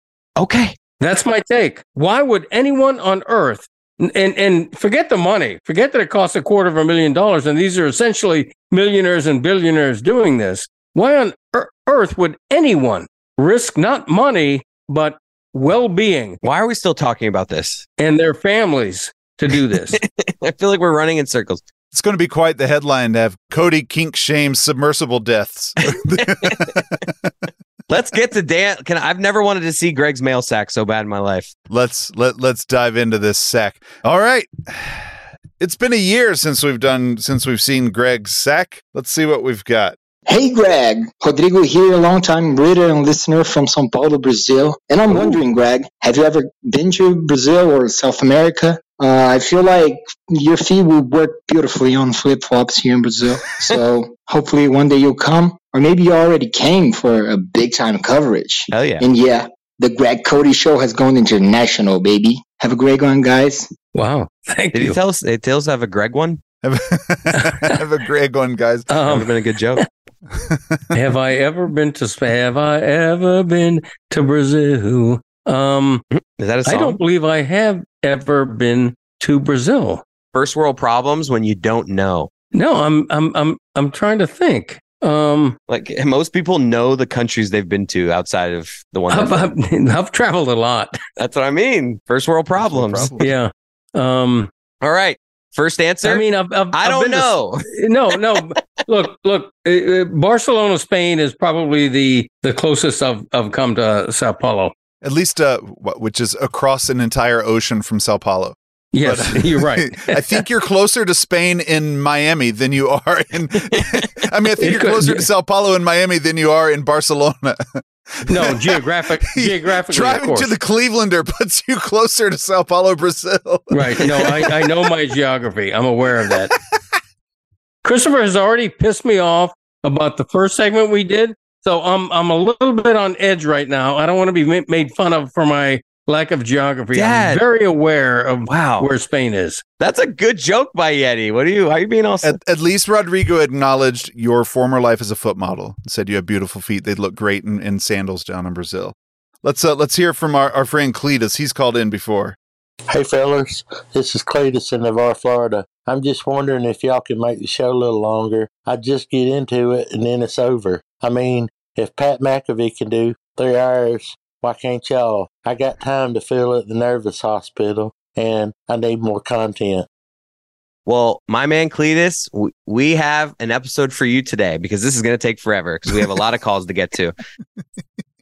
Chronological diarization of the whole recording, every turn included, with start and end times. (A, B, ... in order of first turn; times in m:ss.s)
0:00.4-0:00.8 A
0:01.0-0:16.4 B
0:16.4-0:17.8 A
0:18.0-0:20.0 B
0:19.9-0:21.6 A
0:21.9-0:27.3 C
0:26.2-0:26.7 A
0:27.9-0:31.5 A
0:31.7-0:40.0 C
0:40.3-1:03.7 D
0:58.7-0:59.0 A
1:03.9-1:05.0 B
1:04.7-1:06.4 A
1:06.6-1:08.9 C
1:07.4-1:07.8 B
1:08.9-1:09.9 B
1:09.1-1:09.8 A
1:10.3-1:10.9 C
1:10.9-1:16.0 B
1:16.1-1:17.0 A
1:16.7-1:20.0 B
1:20.3-1:22.3 A
1:22.5-1:25.6 B
1:25.7-1:29.5 A
1:29.1-1:31.0 B
1:31.2-1:33.1 A
1:32.6-1:33.3 C
1:33.2-1:34.5 B
1:34.8-1:37.6 A
1:36.0-1:44.7 B
1:45.0-2:04.7 C
1:48.9-1:50.4 B
1:54.6-1:55.3 B
1:58.3-2:00.5 B
2:03.7-2:06.5 B
2:07.8-2:19.6 B
2:16.9-2:17.4 A
2:18.5-2:18.9 A
2:19.8-2:22.4 A
2:22.2-2:32.4 C
2:32.9-2:49.9 E
2:50.9-2:57.2 A